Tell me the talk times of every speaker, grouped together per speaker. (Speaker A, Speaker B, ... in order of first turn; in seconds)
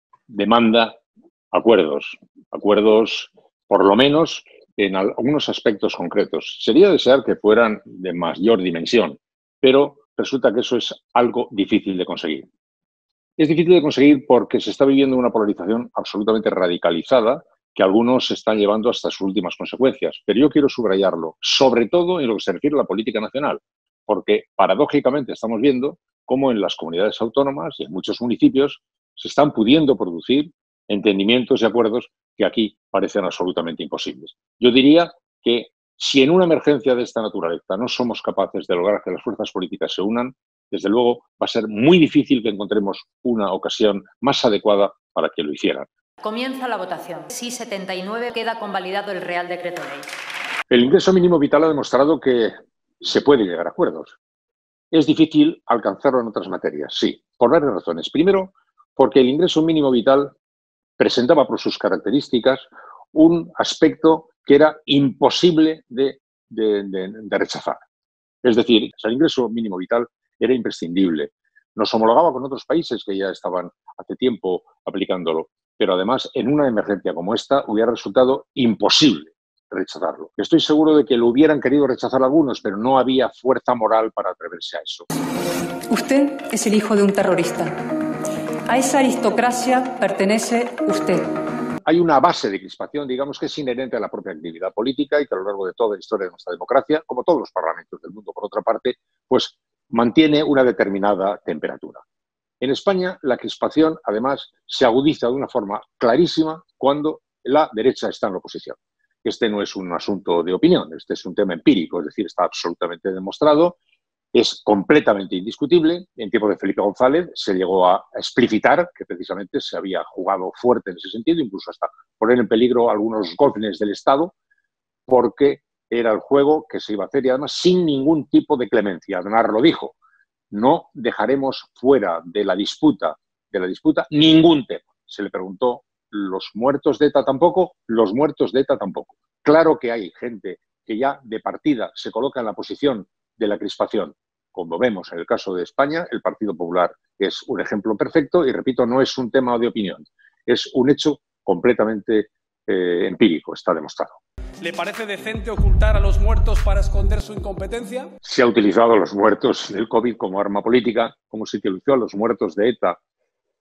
Speaker A: 0.3-1.0, 1.5-12.5, 13.4-45.9, 50.7-54.2, 54.9-60.4, 61.0-67.8, 68.4-85.1, 91.8-102.0, 102.6-113.8, 114.3-124.3, 125.1-130.0, 130.5-154.2, 158.2-163.0
Speaker B: 46.2-50.1
Speaker C: 85.9-87.7, 88.7-91.3
Speaker D: 154.6-158.1